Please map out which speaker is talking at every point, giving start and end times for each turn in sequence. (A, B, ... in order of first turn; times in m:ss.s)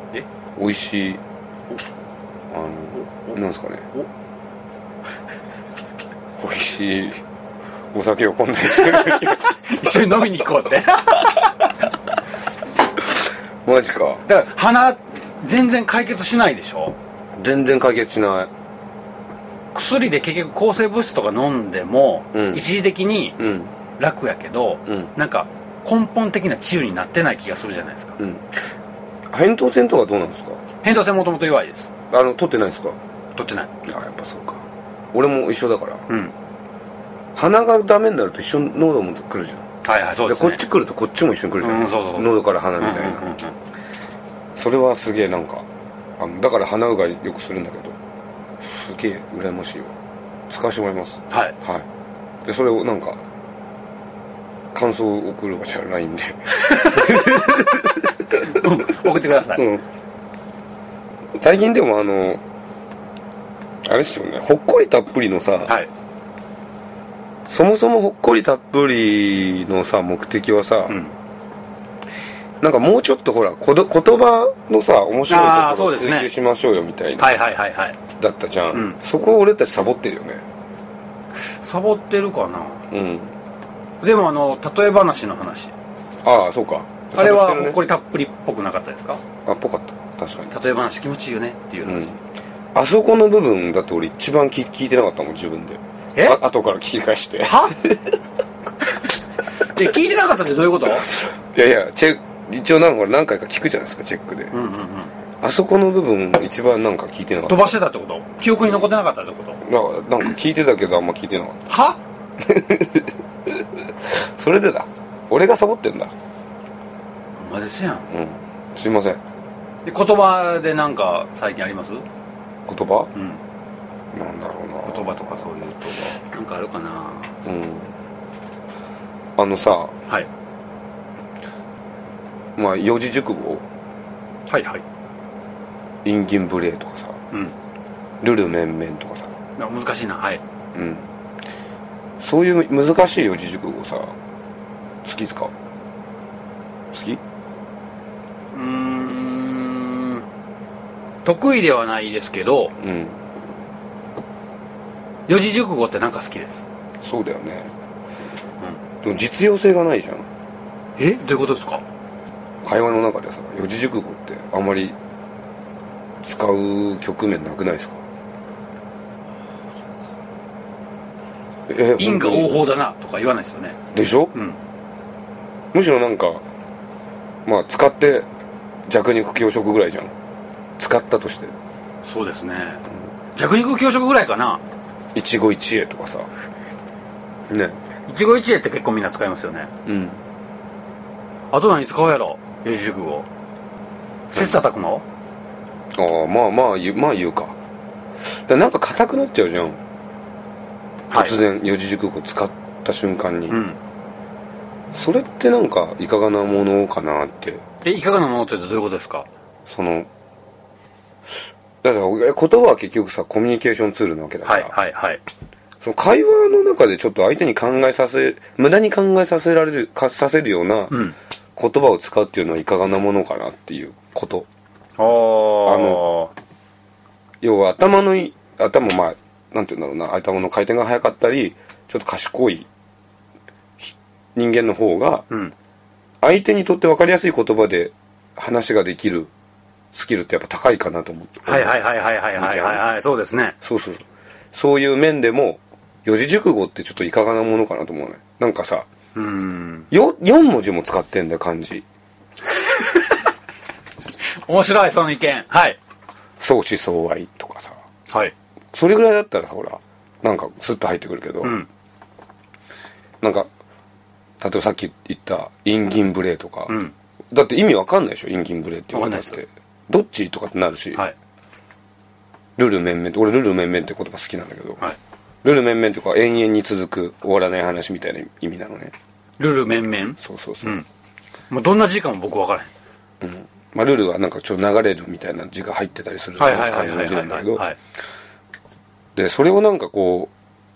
0:00.6-0:01.2 A
0:02.5-0:03.9 A
0:03.0-0:03.4 B
0:06.4-0:07.2 A
0:07.9-0:09.6 A
0:08.7-0:11.4 B
0:13.6-0:14.2 A
0:14.2-0:17.0 B
0:17.4-0:18.5 A
0:19.7-0:23.4 B
0:22.3-0:22.6 A
0:23.4-0:23.7 A
0:24.0-0:28.2 B
0:28.2-0:28.5 A
0:29.3-0:30.6 A
0:30.8-0:31.9 B
0:32.1-0:33.0 A
0:33.4-0:33.7 B
0:33.8-0:36.0 A
0:36.1-0:36.3 B
0:37.3-0:39.6 A
0:39.8-0:40.6 B
0:40.3-0:43.2 A
0:41.6-0:43.5 B
0:44.6-0:45.7 A
0:46.2-0:48.0 A
0:48.6-0:49.9 A
0:50.5-0:51.8 A
0:51.3-0:51.6 B
0:52.4-0:53.2 A
0:54.7-0:58.4 A
0:56.6-0:57.4 B
0:58.3-0:59.6 B
0:59.6-0:59.8 A
1:01.4-1:02.4 A
1:03.8-1:05.8 A
1:07.5-1:11.0 A
1:12.6-1:17.3 A
1:15.3-1:16.3 B
1:17.2-1:18.0 B
1:18.2-1:20.4 A
1:18.7-1:19.0 B
1:21.4-1:22.8 B
1:22.9-1:23.3 A
1:24.0-1:25.7 B
1:26.2-1:27.8 A
1:27.1-1:29.2 B
1:29.5-1:30.5 A
1:30.5-1:32.2 B
1:31.8-1:32.1 A
1:32.7-1:38.2 A
1:37.4-1:37.8 B
1:39.6-1:41.1 B
1:41.1-1:44.5 A
1:44.5-1:45.1 B
1:45.4-1:47.8 A
1:47.5-1:49.6 B
1:49.6-1:51.6 A
1:51.7-1:52.0 B
1:52.4-1:56.1 A
1:57.4-1:58.1 B
1:58.1-1:59.2 A
1:59.8-2:02.0 B
2:02.7-2:03.1 A
2:03.2-2:03.4 B
2:04.1-2:06.2 A
2:04.8-2:07.3 B
2:07.4-2:07.9 A
2:09.4-2:09.9 A
2:12.6-2:13.6 A
2:14.5-2:14.8 B
2:16.0-2:17.2 A
2:18.2-2:19.3 A
2:19.6-2:20.4 B
2:20.7-2:21.1 A
2:22.2-2:24.1 A
2:25.0-2:25.5 A
2:26.9-2:27.2 A
2:28.5-2:30.2 B
2:31.2-2:32.7 B
2:32.8-2:33.2 A
2:35.3-2:36.6 B
2:37.0-2:37.7 A
2:39.0-2:40.3 A
2:41.0-2:41.8 B
2:42.6-2:45.0 A
2:46.2-2:48.0 A
2:51.7-2:52.6 A
2:52.0-2:53.8 B
2:53.9-2:54.3 A
2:55.7-2:56.4 A
2:57.5-2:58.3 A
2:58.9-3:00.1 A
3:00.8-3:01.5 A
3:02.0-3:02.8 B
3:03.4-3:04.6 B
3:05.1-3:06.3 A
3:07.5-3:07.8 A
3:08.1-3:09.7 B
3:09.8-3:10.2 A
3:11.5-3:13.3 B
3:14.3-3:15.0 B
3:14.3-3:14.6 A
3:15.9-3:17.6 A
3:18.5-3:19.8 A
3:21.1-3:21.4 B
3:21.1-3:23.6 A
3:23.5-3:23.8 B
3:24.9-3:27.6 A
3:27.8-3:29.3 B
3:29.7-3:30.1 A
3:31.8-3:34.7 A
3:34.4-3:35.2 B
3:35.8-3:41.0 A
3:40.9-3:41.2 B
3:41.6-3:44.5 A
3:45.0-3:46.3 B
3:45.6-3:46.0 A
3:47.4-3:52.7 A
3:53.8-3:55.2 A
3:56.2-3:59.3 A
3:59.9-4:01.8 A
4:01.4-4:03.6 B
4:02.4-4:02.8 A
4:03.6-4:08.8 A
4:09.2-4:09.9 B
4:09.9-4:11.8 A
4:12.5-4:13.2 B
4:14.5-4:15.8 B
4:16.4-4:17.8 A
4:18.7-4:21.6 A
4:21.4-4:21.7 B
4:23.2-4:23.5 A
4:24.4-4:26.8 A
4:26.7-4:26.9 B
4:27.3-4:31.0 A
4:28.9-4:29.4 B
4:32.6-4:34.8 A
4:35.4-4:38.9 A
4:39.4-4:40.9 B
4:40.2-4:40.8 A
4:41.5-4:42.7 B
4:43.2-4:47.6 A
4:46.4-4:47.8 B
4:49.2-4:50.3 A